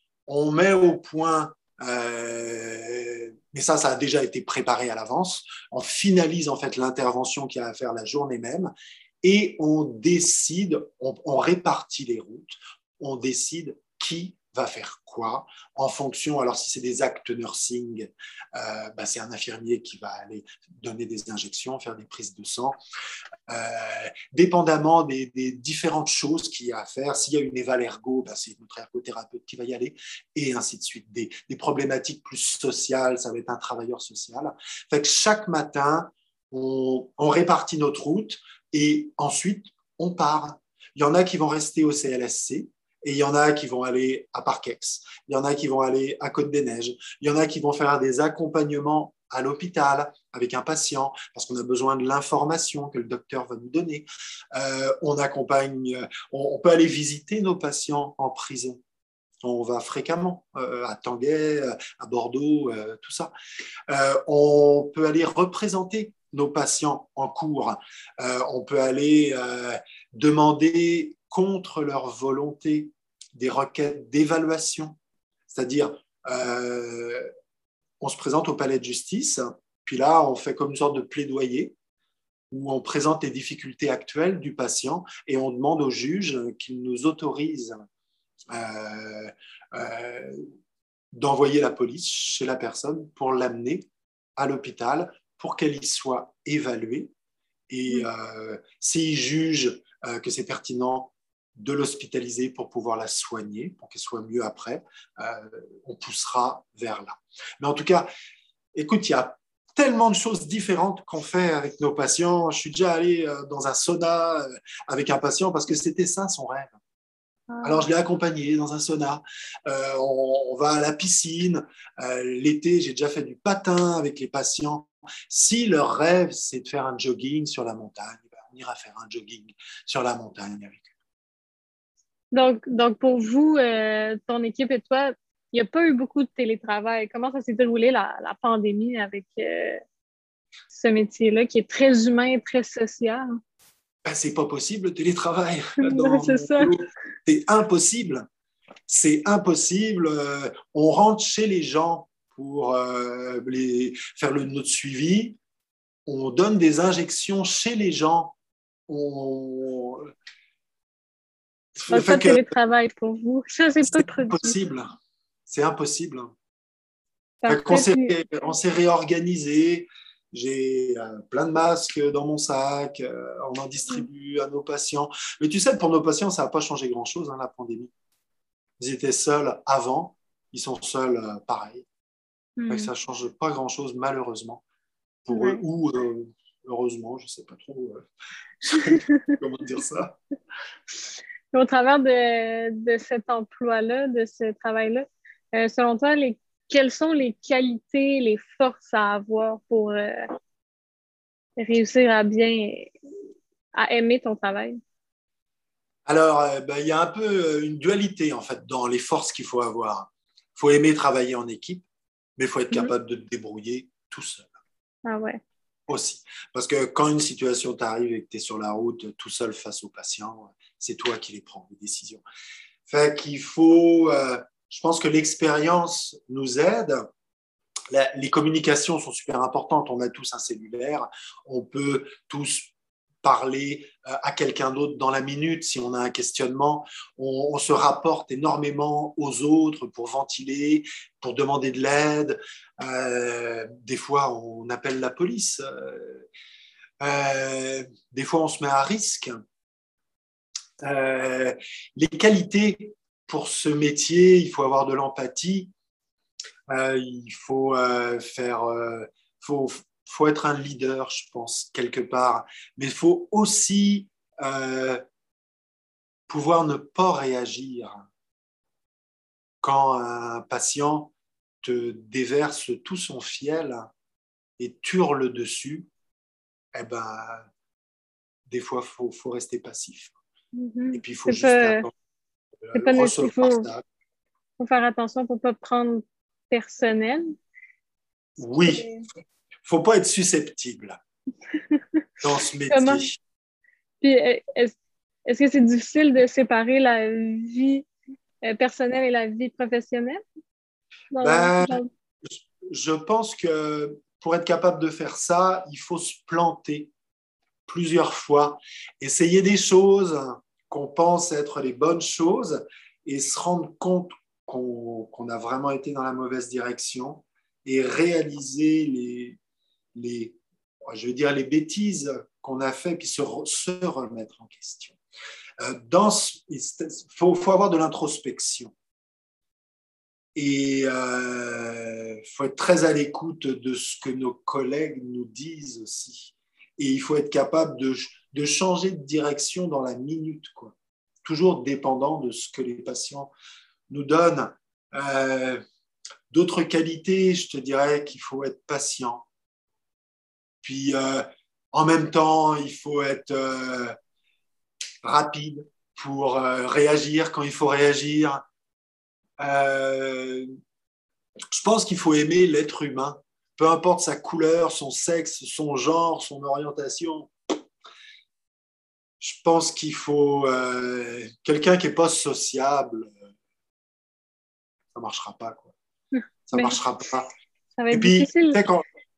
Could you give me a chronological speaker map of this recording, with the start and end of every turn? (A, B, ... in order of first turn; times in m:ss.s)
0:00.3-0:08.7 A
0:09.2-0:22.8 A
0:23.5-0:58.8 A
0:59.4-1:03.3 A
1:03.9-1:15.0 A
1:15.5-1:17.3 A
1:18.0-1:21.7 A
1:22.5-1:27.8 A
1:28.5-1:30.5 A
1:31.1-1:37.1 A
1:37.7-1:48.1 A
1:48.7-1:56.7 A
1:57.5-1:57.8 B
1:57.6-2:10.9 A
2:12.3-2:19.8 B
2:20.7-2:23.3 B
2:24.0-2:28.3 A
2:25.8-2:26.7 B
2:28.9-2:35.4 A
2:36.0-2:38.3 A
2:38.9-2:40.1 A
2:41.8-2:42.4 A
2:41.9-2:44.6 B
2:43.9-2:44.8 A
2:45.5-2:46.3 A
2:47.4-2:48.2 B
2:47.5-2:57.9 A
2:58.8-3:01.8 A
3:02.6-3:02.9 B
3:02.7-3:04.6 A
3:05.2-3:08.0 A
3:05.3-3:05.6 B
3:08.6-3:10.2 A
3:08.8-3:09.3 B
3:11.5-3:20.2 B
3:21.6-3:22.9 B
3:23.8-3:24.8 B
3:26.0-3:31.8 A
3:32.4-3:34.5 A
3:35.0-3:35.4 B
3:35.9-3:42.2 A
3:42.9-3:47.1 A
3:47.9-3:52.7 A
3:53.2-4:06.3 A
4:07.0-4:09.4 A
4:10.8-4:15.7 A
4:16.7-4:25.0 A
4:26.3-4:28.1 A
4:29.6-4:33.9 A
4:34.6-4:35.9 A
4:36.7-4:37.5 A
4:38.5-4:40.1 A
4:40.6-4:41.9 B
4:40.9-4:41.9 A
4:42.6-4:43.8 A
4:42.7-4:43.7 B
4:44.6-4:47.3 B
4:48.4-4:48.9 A
4:48.7-4:49.0 B
4:49.6-4:51.0 A
4:52.2-4:53.2 A
4:52.7-4:53.0 B
4:54.0-4:57.8 B
4:58.4-5:00.2 B
5:01.1-5:01.9 B
5:01.2-5:06.9 A
5:07.7-5:19.4 A
5:19.9-5:20.4 A
5:20.9-5:25.0 A
5:25.6-5:28.7 A
5:30.3-5:43.3 A
5:43.9-5:45.6 A
5:46.3-5:49.2 A
5:50.6-5:54.0 A
5:55.0-5:58.4 A
5:59.4-6:00.5 A
6:01.5-6:07.3 A
6:09.2-6:13.1 A
6:14.9-6:15.7 A
6:16.1-6:16.8 B
6:16.5-6:17.3 A
6:17.8-6:18.6 B
6:17.9-6:18.8 A